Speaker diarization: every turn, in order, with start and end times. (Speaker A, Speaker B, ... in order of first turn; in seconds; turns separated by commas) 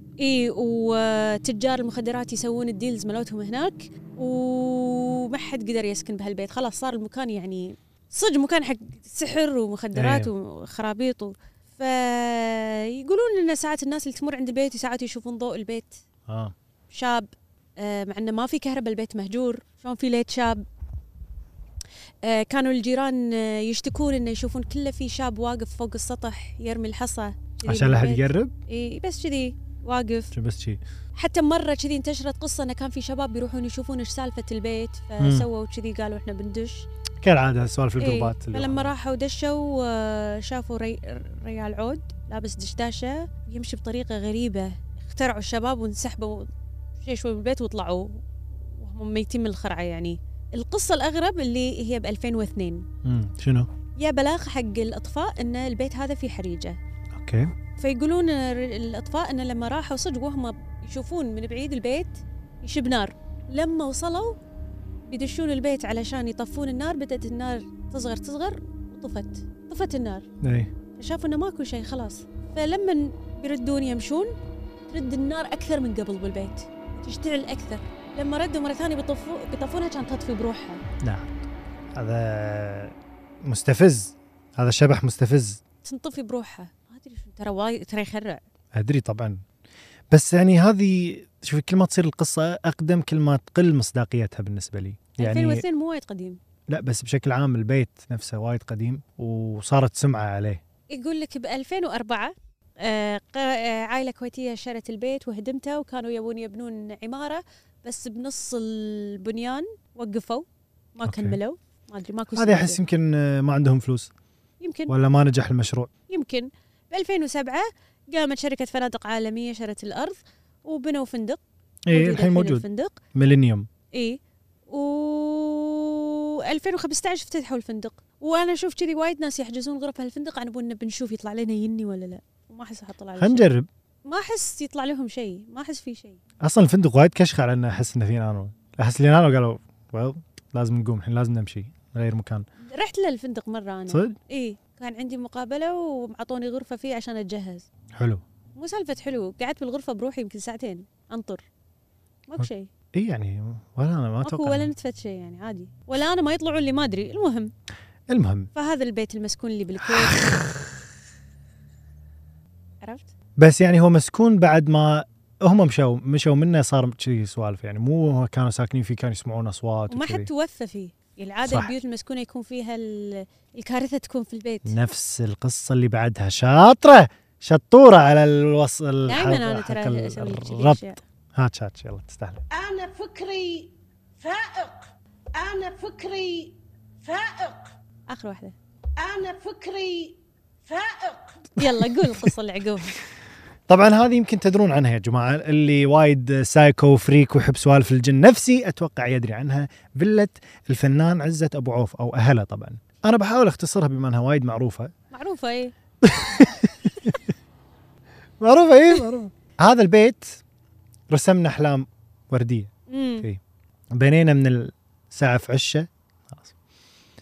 Speaker A: 0.2-16.0, Speaker B: 9.9-10.3, Speaker B: 16.3-16.5, Speaker A: 16.9-20.6, Speaker A: 22.2-30.3, Speaker B: 27.6-28.5, Speaker B: 30.3-30.8, Speaker A: 31.1-36.9, Speaker B: 35.2-35.5, Speaker B: 37.2-38.9, Speaker A: 38.0-46.5, Speaker A: 47.0-52.9, Speaker B: 53.0-53.7, Speaker A: 54.0-56.8, Speaker B: 57.1-57.5, Speaker A: 57.8-64.4, Speaker A: 65.1-70.3, Speaker B: 70.4-70.7, Speaker A: 71.0-74.3, Speaker A: 74.9-80.8, Speaker B: 81.0-85.6, Speaker A: 85.8-88.4, Speaker B: 88.7-89.4, Speaker B: 90.1-95.6, Speaker A: 95.2-96.4, Speaker B: 96.7-100.6, Speaker A: 100.9-112.8, Speaker B: 111.0-111.4, Speaker B: 112.3-114.1, Speaker A: 114.6-114.9, Speaker B: 114.9-115.9, Speaker A: 116.1-123.0, Speaker B: 121.9-123.7, Speaker A: 123.9-133.5, Speaker B: 133.2-133.7, Speaker A: 134.1-136.2, Speaker B: 136.4-142.4, Speaker A: 142.7-147.7, Speaker B: 143.9-144.2, Speaker B: 147.9-148.2, Speaker A: 148.6-151.4, Speaker A: 152.3-152.7, Speaker B: 152.4-154.7, Speaker A: 154.2-157.5, Speaker B: 158.1-158.5, Speaker A: 158.5-160.3, Speaker B: 159.8-160.8, Speaker A: 162.8-163.1, Speaker B: 163.4-170.3, Speaker A: 169.9-174.8, Speaker B: 171.4-171.7, Speaker B: 174.6-182.4, Speaker A: 179.1-181.0, Speaker C: 182.5-187.7, Speaker A: 188.1-188.5, Speaker C: 188.9-191.5, Speaker A: 191.6-193.0, Speaker B: 191.8-192.3, Speaker B: 193.7-204.9, Speaker A: 205.1-205.7, Speaker B: 206.0-207.2, Speaker B: 208.4-210.4, Speaker B: 211.1-213.4, Speaker A: 212.9-213.3, Speaker B: 213.9-216.5